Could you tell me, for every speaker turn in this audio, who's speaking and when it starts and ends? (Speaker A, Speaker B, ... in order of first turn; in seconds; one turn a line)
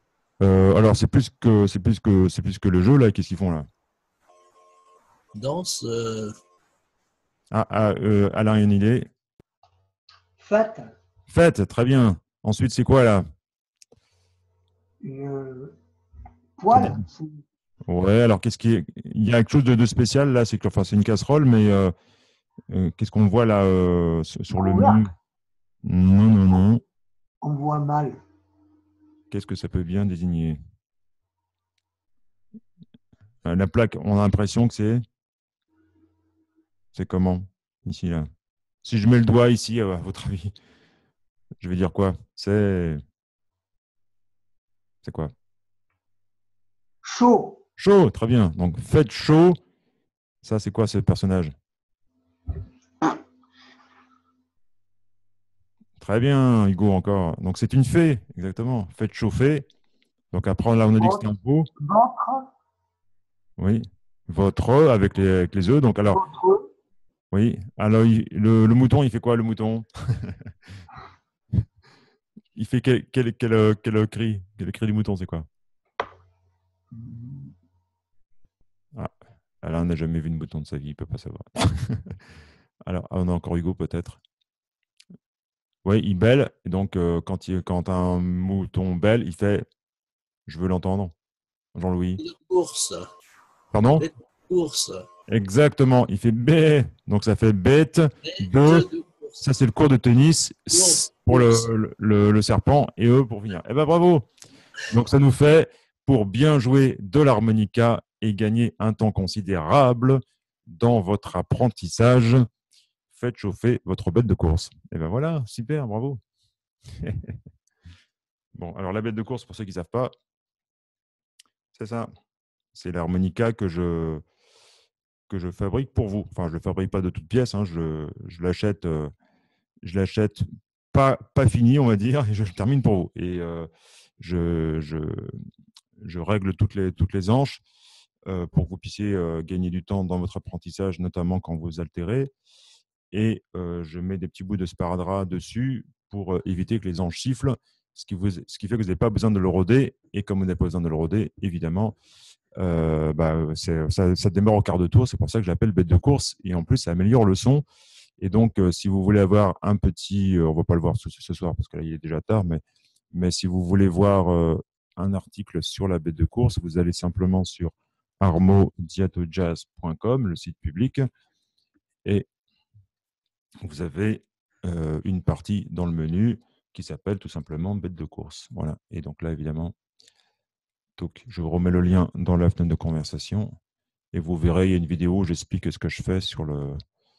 Speaker A: 0.4-3.7
Speaker B: 5.3-6.3
Speaker A: 7.5-9.1
Speaker C: 10.4-10.9
Speaker A: 11.3-13.2
Speaker C: 15.0-15.7
Speaker C: 16.6-17.4
Speaker A: 16.7-17.0
Speaker A: 17.9-21.9
Speaker A: 22.7-25.1
Speaker C: 24.5-25.1
Speaker A: 25.8-26.8
Speaker C: 27.4-28.2
Speaker A: 29.3-30.6
Speaker A: 33.4-35.0
Speaker A: 36.9-38.3
Speaker A: 38.8-40.5
Speaker A: 41.6-43.0
Speaker A: 45.0-45.3
Speaker C: 47.0-47.6
Speaker A: 47.8-49.6
Speaker A: 50.4-51.5
Speaker A: 56.0-59.6
Speaker A: 60.3-61.7
Speaker C: 61.0-61.2
Speaker C: 61.8-62.5
Speaker A: 63.6-66.2
Speaker C: 66.1-66.7
Speaker A: 67.3-70.5
Speaker A: 72.5-75.5
Speaker C: 76.9-77.5
Speaker A: 79.6-82.2
Speaker A: 82.8-84.2
Speaker A: 85.8-89.7
Speaker A: 90.5-91.1
Speaker A: 91.7-92.2
Speaker B: 92.2-93.1
Speaker A: 93.7-94.0
Speaker B: 94.0-95.0
Speaker A: 95.3-98.9
Speaker B: 98.2-99.4
Speaker A: 99.4-104.2
Speaker B: 100.7-101.7
Speaker A: 104.9-112.4
Speaker A: 113.1-116.2
Speaker A: 117.0-117.3
Speaker A: 118.5-120.1
Speaker A: 121.7-122.1
Speaker A: 122.7-124.2
Speaker A: 125.3-129.1
Speaker A: 129.8-135.3
Speaker A: 136.0-137.6
Speaker A: 138.3-142.3
Speaker A: 143.1-152.0
Speaker A: 152.6-157.6
Speaker A: 158.2-171.0
Speaker A: 173.6-179.8
Speaker A: 181.0-183.5
Speaker A: 184.1-186.8